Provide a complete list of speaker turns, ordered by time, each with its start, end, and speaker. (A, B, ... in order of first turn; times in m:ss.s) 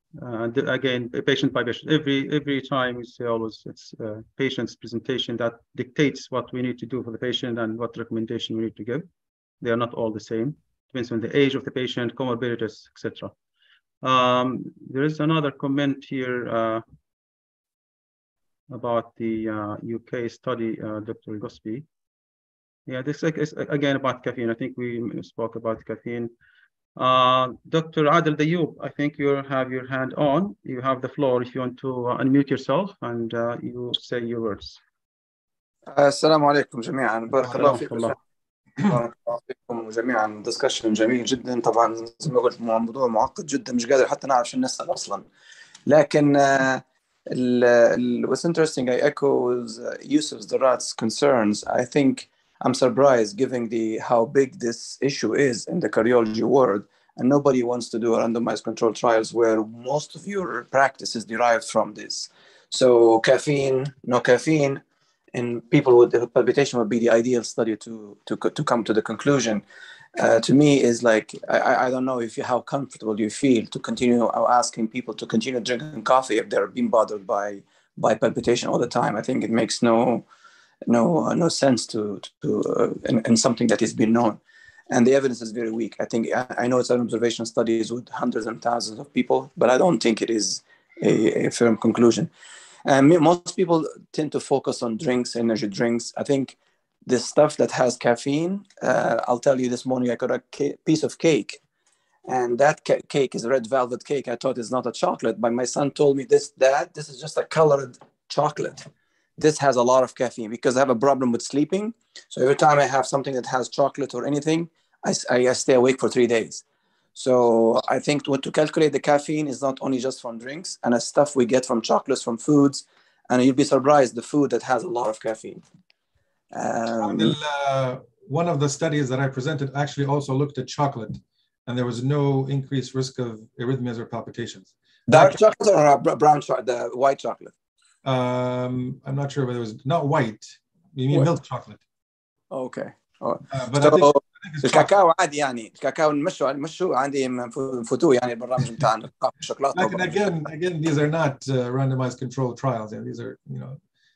0:00.2-0:09.0 A
0:09.6-0:13.3 A
0:14.0-0:16.8 A
0:18.7-0:21.9 A
0:22.9-0:26.3 A
0:27.0-0:34.8 A
0:35.9-0:38.2 B
0:37.4-0:38.2 A
0:38.8-0:45.3 B
0:45.9-1:04.8 B
1:05.3-1:09.6 B
1:10.2-1:20.3 B
1:20.9-1:32.3 B
1:32.8-1:41.6 B
1:42.3-1:48.8 B
1:49.4-1:56.6 B
1:57.2-2:05.6 B
2:06.5-2:07.3 B
2:07.0-2:15.4 C
2:15.1-2:17.5 B
2:18.0-2:21.8 C
2:22.5-2:30.3 B
2:23.5-2:24.9 C
2:29.7-2:33.8 C